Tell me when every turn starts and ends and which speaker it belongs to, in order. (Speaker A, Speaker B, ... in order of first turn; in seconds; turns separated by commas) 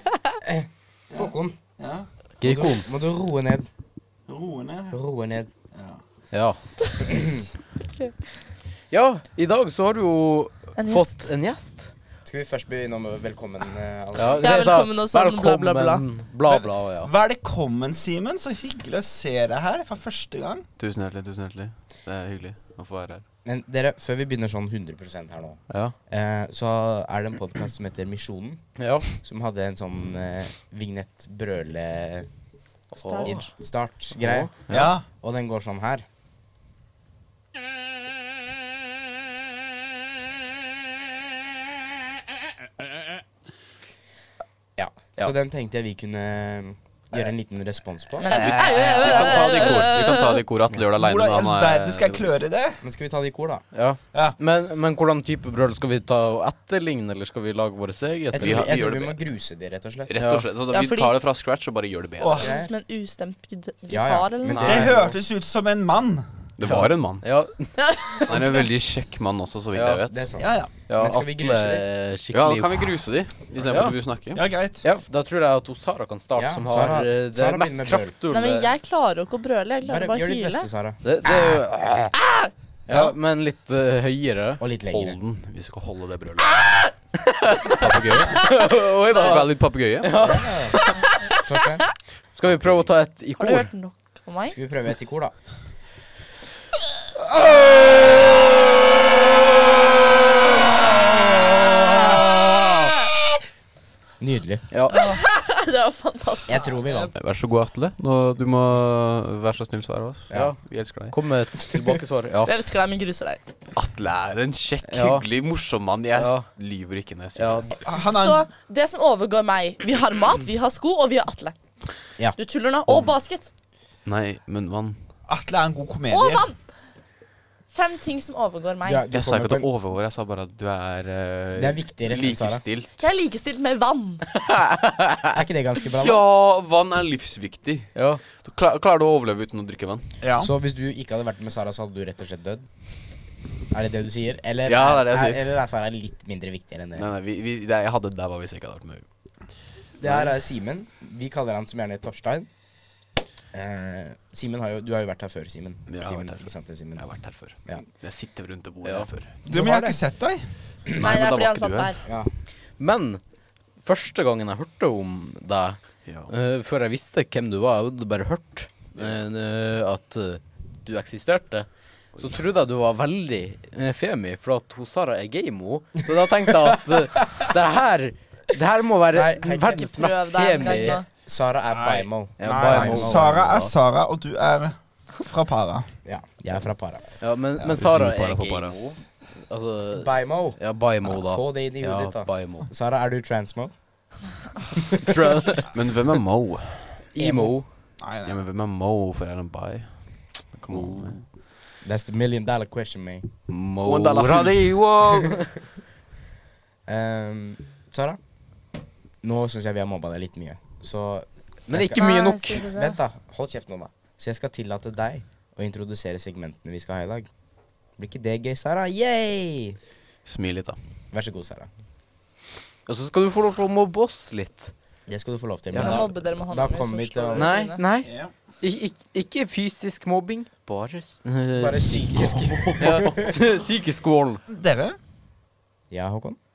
Speaker A: 0.4-1.6, Speaker B: 1.1-2.1, Speaker C: 2.4-2.9, Speaker A: 2.4-3.7, Speaker B: 4.3-5.0, Speaker A: 4.9-5.5, Speaker B: 5.7-6.0, Speaker C: 6.3-6.6, Speaker D: 6.8-7.1, Speaker A: 7.1-7.5, Speaker C: 8.9-11.9, Speaker D: 10.8-11.3, Speaker A: 12.2-14.5, Speaker C: 14.1-17.1, Speaker D: 14.4-16.0, Speaker B: 16.4-20.7, Speaker E: 20.8-23.2, Speaker A: 23.4-32.3, Speaker C: 25.7-25.9, Speaker C: 28.8-29.2, Speaker D: 32.9-33.5, Speaker C: 33.0-33.5, Speaker A: 33.2-36.0, Speaker C: 34.0-34.8, Speaker B: 34.7-35.0, Speaker A: 44.8-48.6, Speaker D: 48.2-50.4, Speaker E: 48.3-52.3, Speaker B: 50.9-52.8, Speaker A: 52.8-53.6, Speaker C: 53.7-58.7, Speaker E: 58.3-59.2, Speaker A: 58.3-60.1, Speaker E: 60.1-62.5, Speaker C: 60.1-60.5, Speaker D: 60.7-61.2, Speaker B: 62.2-62.6, Speaker A: 62.4-62.7, Speaker D: 62.4-64.9, Speaker A: 63.9-65.1, Speaker C: 64.4-65.1, Speaker B: 64.6-66.3, Speaker E: 66.6-67.2, Speaker C: 66.6-67.7, Speaker D: 67.8-68.5, Speaker E: 68.2-70.3, Speaker C: 69.7-70.0, Speaker A: 70.1-71.8, Speaker B: 70.4-70.7, Speaker C: 70.9-73.0, Speaker E: 72.3-74.4, Speaker C: 73.6-74.0, Speaker B: 74.3-74.8, Speaker C: 74.8-78.7, Speaker A: 76.3-78.1, Speaker D: 78.3-80.7, Speaker A: 79.8-81.0, Speaker C: 81.0-82.2, Speaker D: 82.1-82.5, Speaker C: 82.9-84.6, Speaker A: 84.6-85.2, Speaker E: 84.9-86.9, Speaker C: 87.1-91.0, Speaker E: 87.7-90.3, Speaker A: 90.2-90.8, Speaker D: 91.0-91.4, Speaker A: 91.4-91.9, Speaker C: 92.3-93.7, Speaker E: 92.4-92.9, Speaker D: 93.4-94.5, Speaker A: 94.5-95.3, Speaker A: 104.2-104.6, Speaker C: 104.7-105.0, Speaker D: 104.9-106.8, Speaker A: 106.5-107.1, Speaker B: 106.6-107.1, Speaker E: 107.2-111.2, Speaker C: 110.3-112.5, Speaker D: 112.4-113.4, Speaker E: 113.7-117.8, Speaker C: 114.8-115.3, Speaker C: 116.1-116.5, Speaker C: 117.3-117.7, Speaker B: 117.8-118.5, Speaker D: 118.0-121.5, Speaker D: 122.4-123.5, Speaker B: 122.9-123.1, Speaker E: 124.0-125.0, Speaker B: 125.3-126.5, Speaker D: 126.1-126.6, Speaker D: 127.7-129.1, Speaker A: 128.8-129.7, Speaker E: 129.1-133.1, Speaker A: 131.5-132.6, Speaker D: 133.0-134.2, Speaker C: 134.5-135.0, Speaker A: 135.3-136.2, Speaker E: 135.9-140.1, Speaker C: 137.9-138.2, Speaker B: 140.2-140.5, Speaker A: 140.4-142.7, Speaker A: 143.7-147.1, Speaker E: 144.7-145.4, Speaker E: 146.9-149.0, Speaker A: 150.0-152.5, Speaker E: 150.0-150.3, Speaker A: 153.5-157.8, Speaker E: 155.9-159.4, Speaker C: 158.8-159.1, Speaker B: 159.4-160.4, Speaker A: 159.5-160.0, Speaker D: 160.9-162.0, Speaker E: 161.0-161.9, Speaker A: 162.0-162.3, Speaker C: 162.8-163.2, Speaker C: 163.8-181.0, Speaker E: 166.0-166.3, Speaker A: 179.1-179.9, Speaker D: 179.7-181.1, Speaker A: 181.2-183.4, Speaker B: 181.7-185.9, Speaker C: 182.4-183.7, Speaker A: 186.0-187.8, Speaker C: 187.2-192.7, Speaker E: 187.6-188.8, Speaker A: 189.9-193.7, Speaker C: 195.0-195.7, Speaker E: 195.7-197.1, Speaker C: 197.1-197.7, Speaker A: 197.2-197.6, Speaker B: 198.0-198.4, Speaker E: 198.2-201.2, Speaker C: 200.7-201.2, Speaker A: 201.8-203.3, Speaker C: 203.5-205.6, Speaker E: 203.8-204.8, Speaker A: 206.9-208.2, Speaker A: 209.2-217.3, Speaker C: 211.7-212.6, Speaker D: 211.9-213.0, Speaker A: 217.9-219.8, Speaker E: 220.2-220.8, Speaker A: 221.1-221.7, Speaker C: 222.8-224.7, Speaker A: 225.1-227.5, Speaker D: 225.7-227.9, Speaker C: 225.7-226.0, Speaker C: 227.3-228.1, Speaker B: 228.0-228.3, Speaker C: 228.6-234.4, Speaker A: 231.5-233.3, Speaker B: 234.5-235.0, Speaker A: 235.9-236.4